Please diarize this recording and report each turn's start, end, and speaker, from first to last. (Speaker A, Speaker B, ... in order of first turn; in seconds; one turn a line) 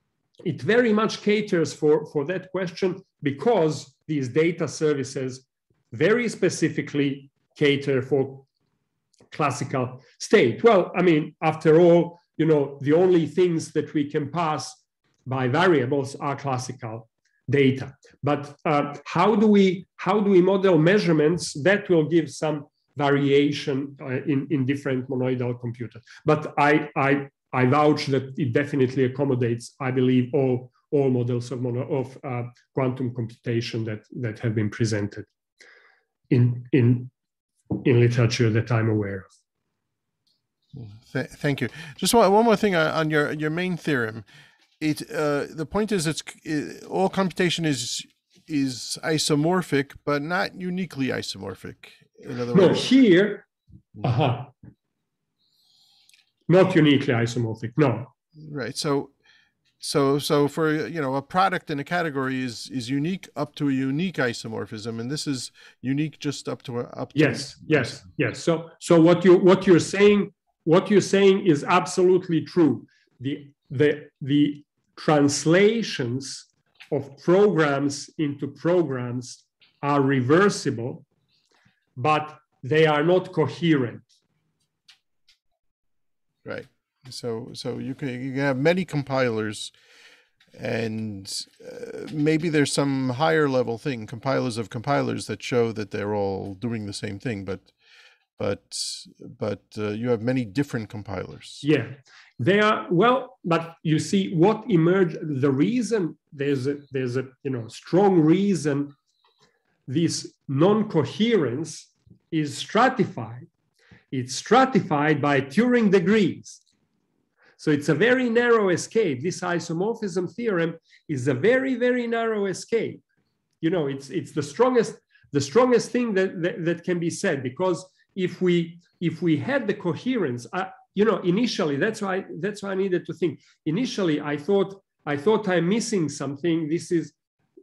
Speaker A: 0.4-8.5
Speaker A: 9.3-35.3
Speaker A: 36.3-37.1
Speaker A: 37.7-39.3
Speaker B: 40.7-44.2
Speaker B: 44.8-52.9
Speaker A: 52.5-53.5
Speaker A: 54.0-54.5
Speaker A: 56.5-58.1
Speaker B: 58.4-59.1
Speaker B: 59.8-68.0
Speaker A: 67.1-81.0
Speaker A: 82.0-84.1
Speaker B: 86.4-89.7
Speaker B: 90.5-97.7
Speaker B: 98.4-101.6
Speaker A: 101.6-108.9
Speaker A: 109.9-113.5
Speaker A: 114.1-116.6
Speaker A: 117.6-123.0
Speaker A: 123.6-137.1